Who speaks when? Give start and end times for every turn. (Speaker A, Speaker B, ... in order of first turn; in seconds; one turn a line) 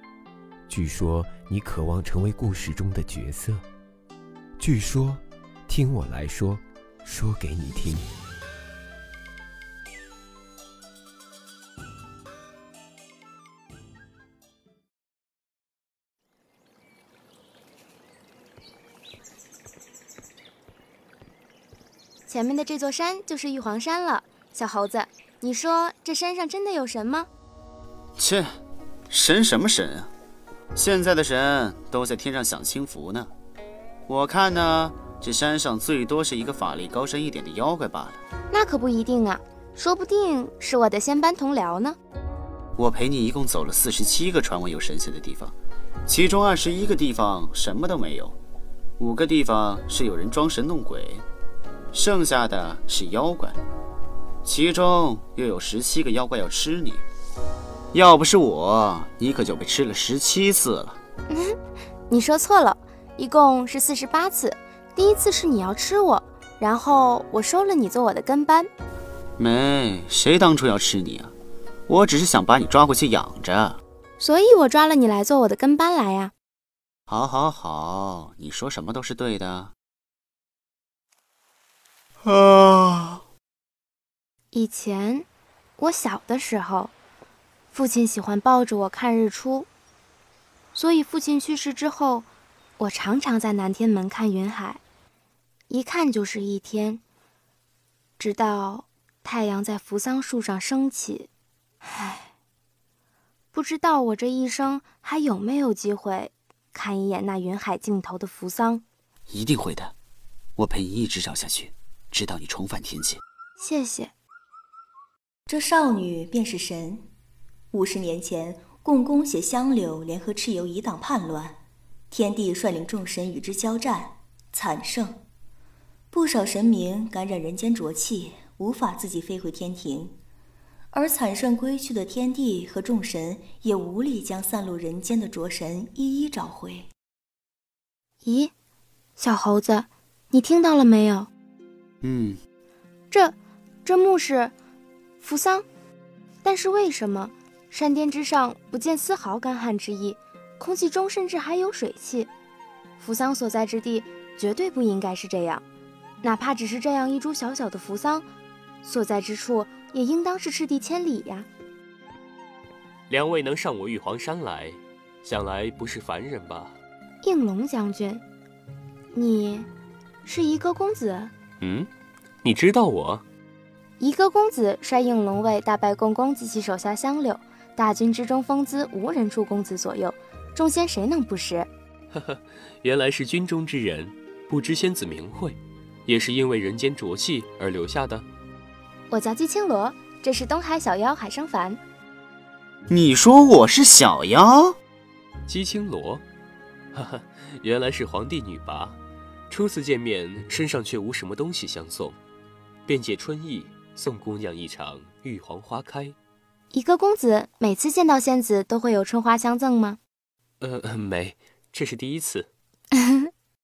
Speaker A: 0.7-3.6
Speaker A: 4.6-8.1
Speaker B: 22.3-27.3
Speaker C: 28.2-28.5
Speaker C: 29.1-30.1
Speaker C: 30.7-33.3
Speaker C: 34.1-38.2
Speaker B: 38.5-42.0
Speaker C: 42.8-45.5
Speaker C: 46.0-48.4
Speaker C: 49.0-51.2
Speaker C: 51.9-53.6
Speaker C: 54.4-57.0
Speaker C: 57.9-61.0
Speaker B: 61.3-61.5
Speaker B: 62.1-68.7
Speaker C: 69.4-71.3
Speaker C: 71.9-73.8
Speaker B: 74.2-76.3
Speaker C: 77.1-79.7
Speaker C: 82.2-83.2
Speaker B: 84.5-85.2
Speaker B: 85.8-86.9
Speaker B: 87.7-89.7
Speaker B: 90.7-92.3
Speaker B: 92.8-94.8
Speaker B: 95.7-97.0
Speaker B: 98.2-101.3
Speaker B: 101.8-102.3
Speaker B: 103.5-108.8
Speaker C: 109.3-109.9
Speaker C: 110.6-113.2
Speaker B: 113.6-114.1
Speaker D: 115.5-117.1
Speaker D: 117.7-121.6
Speaker D: 122.1-125.2
Speaker D: 126.1-130.2
Speaker D: 130.9-136.9
Speaker B: 138.2-138.5
Speaker B: 139.2-141.3
Speaker C: 142.0-142.4
Speaker B: 143.1-144.5
Speaker B: 145.2-145.6
Speaker B: 146.4-152.3
Speaker B: 153.0-155.6
Speaker B: 156.2-158.2
Speaker B: 158.8-161.5
Speaker E: 163.1-166.8
Speaker B: 167.2-168.2
Speaker B: 169.1-169.7
Speaker B: 170.2-171.3
Speaker E: 171.6-171.9
Speaker E: 172.4-173.2
Speaker B: 174.0-181.7
Speaker E: 182.1-188.3
Speaker B: 189.1-191.8
Speaker C: 192.9-194.8
Speaker E: 195.5-196.2
Speaker E: 196.9-202.2
Speaker E: 202.8-206.1
Speaker B: 206.7-210.0
Speaker E: 210.6-212.5
Speaker B: 213.0-213.3